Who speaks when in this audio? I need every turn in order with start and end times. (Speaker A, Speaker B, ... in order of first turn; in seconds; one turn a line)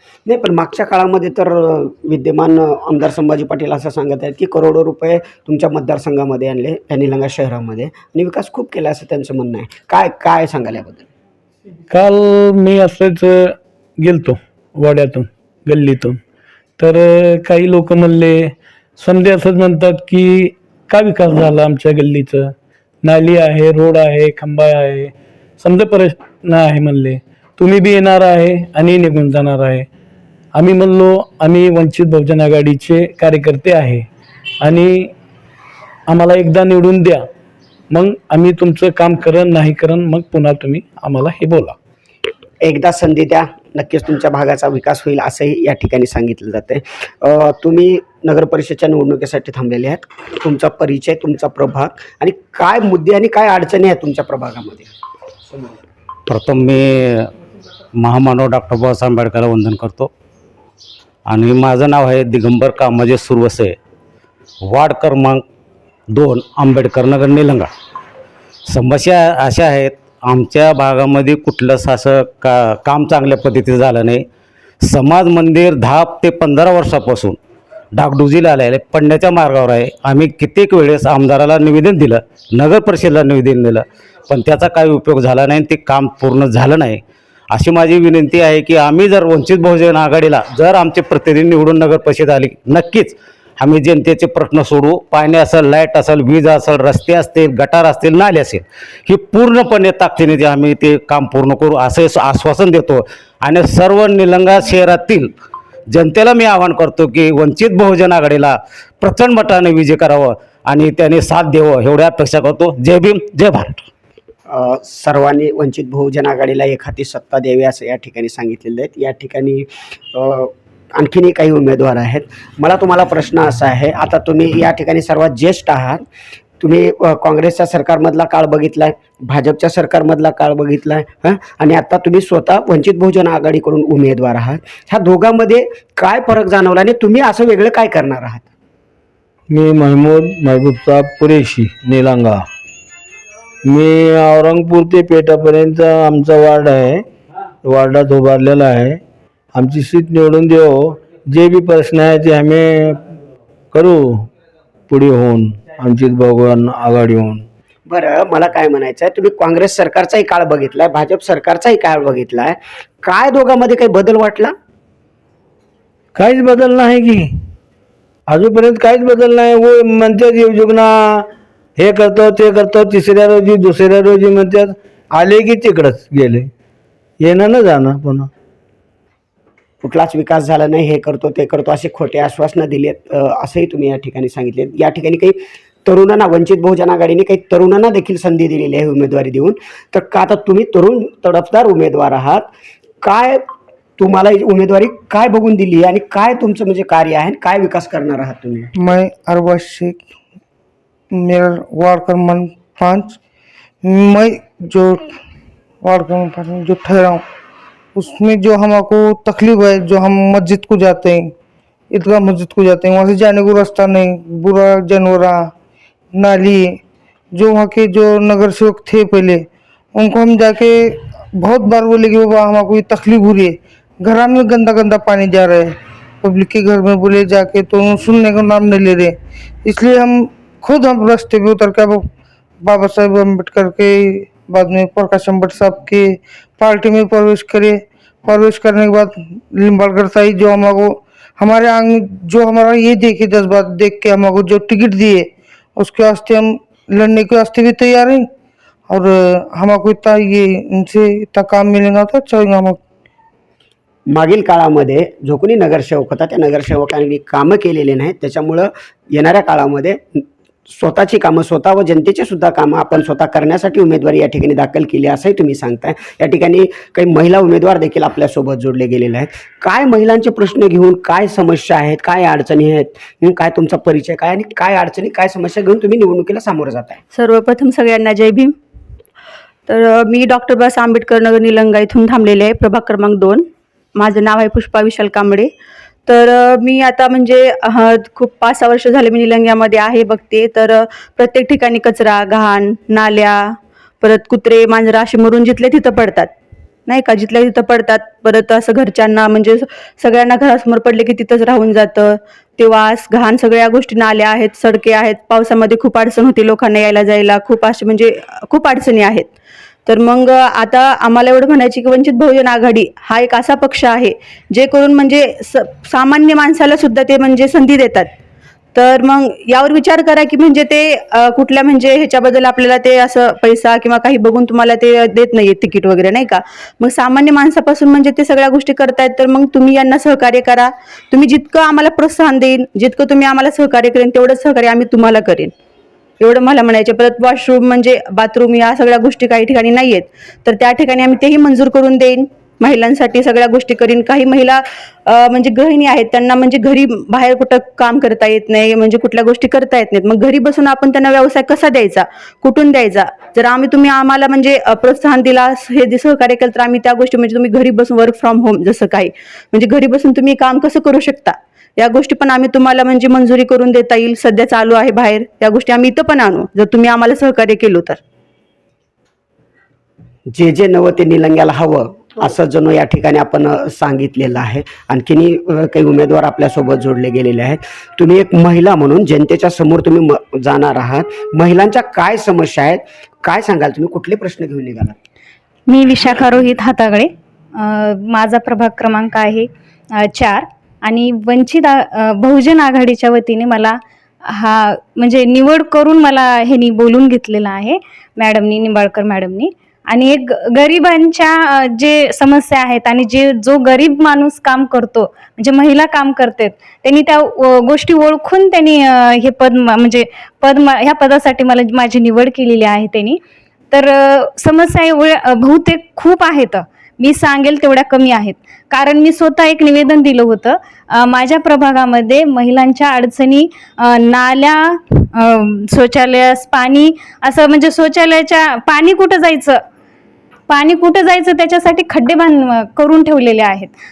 Speaker A: 0.3-11.1
Speaker A: 11.9-13.4
Speaker A: 14.0-16.1
Speaker B: 15.8-16.2
Speaker A: 16.8-18.4
Speaker B: 17.6-18.4
Speaker A: 19.0-22.5
Speaker B: 19.1-22.4
Speaker A: 23.0-29.9
Speaker B: 23.1-24.6
Speaker B: 26.9-27.2
Speaker B: 28.8-29.8
Speaker A: 30.6-34.0
Speaker B: 31.2-33.7
Speaker A: 34.6-34.9
Speaker A: 36.1-37.2
Speaker A: 37.9-41.8
Speaker B: 38.1-40.8
Speaker B: 41.4-41.6
Speaker A: 42.6-54.9
Speaker C: 56.3-57.3
Speaker C: 58.0-60.1
Speaker C: 61.3-63.8
Speaker C: 64.6-65.4
Speaker C: 66.1-67.7
Speaker C: 68.7-74.2
Speaker C: 74.8-77.4
Speaker C: 77.9-105.3
Speaker C: 105.9-113.8
Speaker A: 114.5-126.0
Speaker A: 126.6-138.5
Speaker D: 139.5-142.4
Speaker D: 143.7-147.0
Speaker D: 147.6-149.0
Speaker D: 149.5-153.0
Speaker D: 153.7-154.3
Speaker D: 154.9-157.4
Speaker A: 157.9-164.5
Speaker D: 166.2-167.3
Speaker D: 168.3-176.5
Speaker D: 177.2-178.3
Speaker A: 179.8-193.4
Speaker A: 194.0-198.7
Speaker E: 198.8-200.0
Speaker E: 201.1-203.2
Speaker E: 203.8-205.1
Speaker E: 205.8-207.2
Speaker E: 207.9-211.3
Speaker E: 211.9-215.5
Speaker E: 216.1-216.7
Speaker E: 217.3-219.4
Speaker E: 219.9-229.1
Speaker E: 229.7-232.1
Speaker E: 232.6-248.2
Speaker E: 248.9-252.8
Speaker A: 254.1-277.0
Speaker F: 277.1-278.5
Speaker F: 279.7-283.4
Speaker F: 284.0-285.5
Speaker F: 286.1-296.3
Speaker F: 296.9-309.3
Speaker F: 309.9-318.1
Speaker F: 318.8-335.5
Speaker F: 336.2-368.0
Speaker A: 370.3-385.0
Speaker B: 385.7-389.5
Speaker B: 390.1-393.8
Speaker B: 394.3-413.2
Speaker B: 414.1-416.6
Speaker B: 417.4-418.8
Speaker A: 421.7-422.1
Speaker B: 424.6-429.2
Speaker A: 428.9-429.4
Speaker B: 430.8-432.9